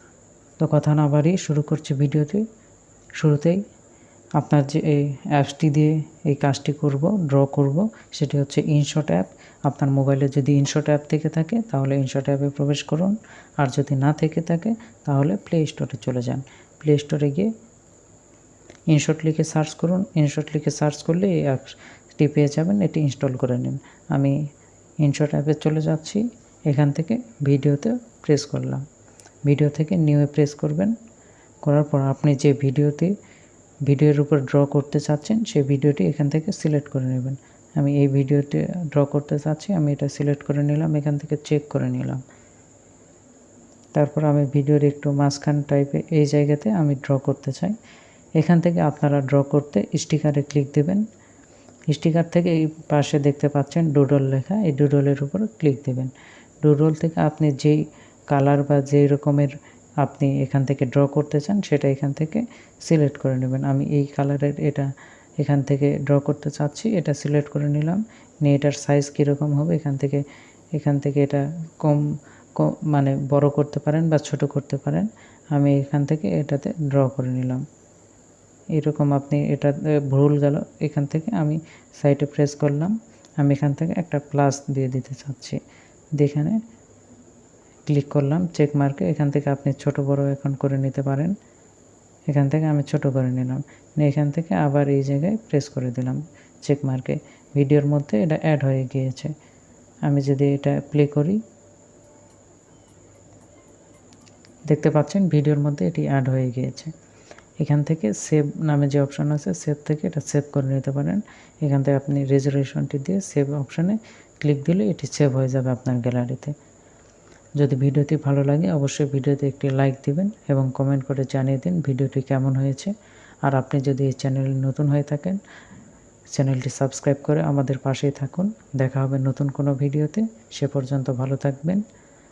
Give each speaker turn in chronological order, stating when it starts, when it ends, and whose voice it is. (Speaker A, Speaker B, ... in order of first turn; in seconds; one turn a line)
Speaker A: 0.6-2.4
Speaker A: 3.2-3.6
Speaker A: 4.4-17.5
Speaker A: 18.9-24.4
Speaker A: 25.0-28.8
Speaker A: 29.4-30.9
Speaker A: 31.6-33.1
Speaker A: 33.9-42.2
Speaker A: 43.9-47.7
Speaker A: 48.4-51.0
Speaker A: 51.9-56.1
Speaker A: 56.6-64.9
Speaker A: 65.4-70.2
Speaker A: 70.7-77.6
Speaker A: 78.8-85.6
Speaker A: 86.2-86.5
Speaker A: 87.9-91.3
Speaker A: 92.3-99.3
Speaker A: 100.0-101.4
Speaker A: 104.7-106.9
Speaker A: 107.6-116.5
Speaker A: 117.6-122.9
Speaker A: 123.4-125.4
Speaker A: 126.3-131.8